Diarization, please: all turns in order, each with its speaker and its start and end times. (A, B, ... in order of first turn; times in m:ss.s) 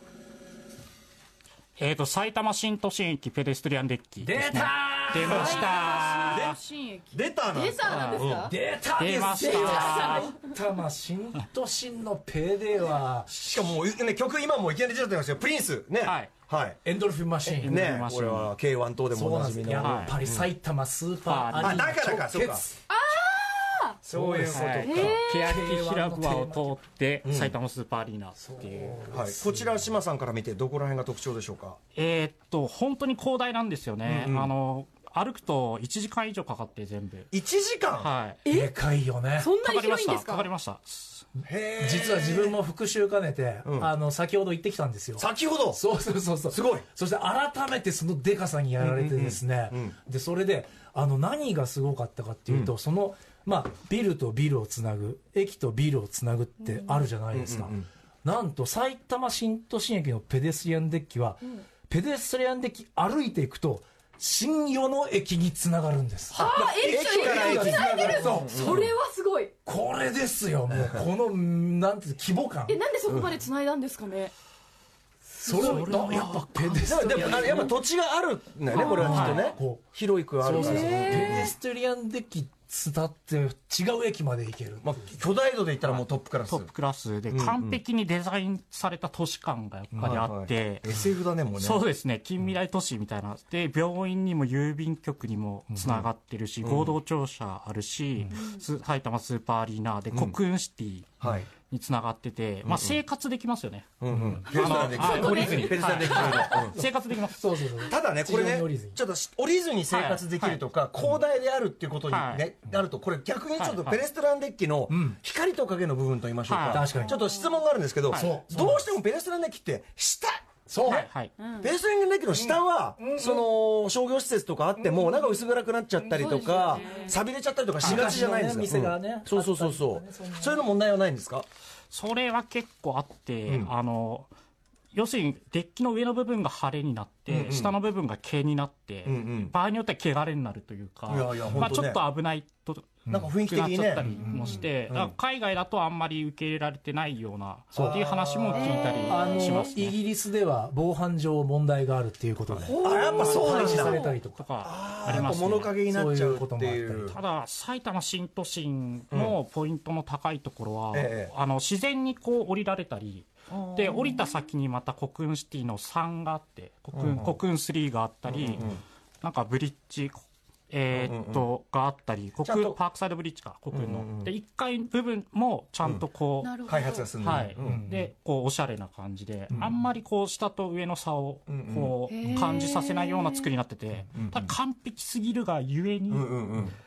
0:01.8-0:06.6 A
0:04.2-0:05.8 B
0:05.1-0:08.5 C
0:06.3-0:06.6 D
0:07.1-0:08.5 D
0:07.8-0:08.4 A
0:08.4-0:13.4 B
0:09.0-0:10.4 A
0:09.4-0:10.5 C
0:13.3-0:16.8 D
0:16.0-0:16.3 A
0:16.8-0:17.8 B
0:17.5-0:18.5 A
0:17.6-0:20.5 D
0:19.1-0:22.8 B
0:19.8-0:20.2 A
0:21.2-0:21.9 A
0:21.6-0:22.6 D
0:22.9-0:24.0 C
0:24.0-0:25.2 D
0:24.1-0:26.8 B
0:24.5-0:29.0 A
0:24.8-0:25.5 C
0:27.2-0:27.6 D
0:28.4-0:29.9 B
0:29.1-0:31.8 D
0:32.0-0:37.3 A
0:34.0-0:34.5 D
0:37.3-0:38.1 D
0:37.9-0:38.4 A
0:38.4-0:38.7 C
0:38.5-0:39.5 B
0:39.4-0:40.5 C
0:39.6-0:41.3 A
0:41.4-0:42.6 D
0:41.8-1:08.9 B
0:43.6-0:43.9 D
0:45.2-0:45.8 D
0:46.5-0:46.8 D
0:48.8-0:50.0 D
0:52.5-0:52.7 D
0:56.7-0:57.0 C
0:57.3-0:57.9 D
1:06.3-1:09.5 C
1:06.3-1:08.9 D
1:09.7-1:12.8 B
1:12.7-1:14.3 C
1:13.1-1:13.4 D
1:15.3-1:17.7 B
1:15.5-1:16.7 A
1:15.6-1:15.9 C
1:16.8-1:21.5 D
1:17.2-1:17.6 C
1:18.7-1:19.3 C
1:18.8-1:19.9 B
1:19.0-1:19.6 A
1:20.4-1:25.2 B
1:20.5-1:21.5 C
1:24.8-1:26.7 D
1:25.9-1:47.7 A
1:27.3-1:27.8 D
1:30.0-1:30.2 B
1:30.0-1:31.8 D
1:35.7-1:36.0 B
1:36.6-1:37.0 D
1:38.3-1:38.6 C
1:40.1-1:40.4 D
1:41.2-1:41.5 D
1:42.6-1:43.0 D
1:44.0-1:46.8 D
1:44.1-1:44.5 B
1:44.6-1:46.4 C
1:45.3-1:45.6 B
1:46.7-1:49.0 B
1:47.8-2:11.5 D
1:49.9-1:50.6 A
1:52.1-1:52.5 A
1:53.6-1:54.0 A
1:54.9-1:55.2 B
1:56.5-1:56.9 A
1:56.7-1:57.3 B
1:57.0-1:57.6 C
1:58.1-1:58.4 A
1:58.1-1:58.9 B
2:00.7-2:01.1 B
2:00.8-2:01.3 A
2:01.4-2:01.7 C
2:02.3-2:03.5 B
2:06.0-2:07.2 C
2:07.8-2:10.6 B
2:11.9-2:14.3 A
2:13.5-2:13.7 D
2:14.9-2:30.0 A
2:17.3-2:17.8 D
2:19.0-2:19.5 D
2:21.1-2:22.0 D
2:23.1-2:23.3 B
2:23.1-2:24.1 D
2:24.0-2:24.6 B
2:24.2-2:24.6 C
2:24.9-2:25.2 D
2:27.7-2:28.0 B
2:27.8-2:29.2 D
2:28.5-2:29.7 C
2:29.1-2:34.4 B
2:32.6-2:34.2 C
2:32.8-2:34.0 D
2:32.9-2:35.8 A
2:34.6-2:37.2 D
2:35.1-2:37.2 B
2:37.1-3:06.6 A
2:39.1-2:39.4 D
2:40.9-2:41.3 D
2:43.5-2:44.2 D
2:46.9-2:47.4 D
2:48.3-2:48.8 D
2:50.9-2:51.5 D
2:52.4-2:52.8 D
2:53.7-2:54.3 D
2:56.4-2:57.1 C
2:56.7-2:57.9 D
2:57.6-2:58.0 B
3:01.5-3:02.0 D
3:02.1-3:03.5 C
3:02.3-3:02.5 B
3:04.1-3:04.5 D
3:06.1-3:06.8 D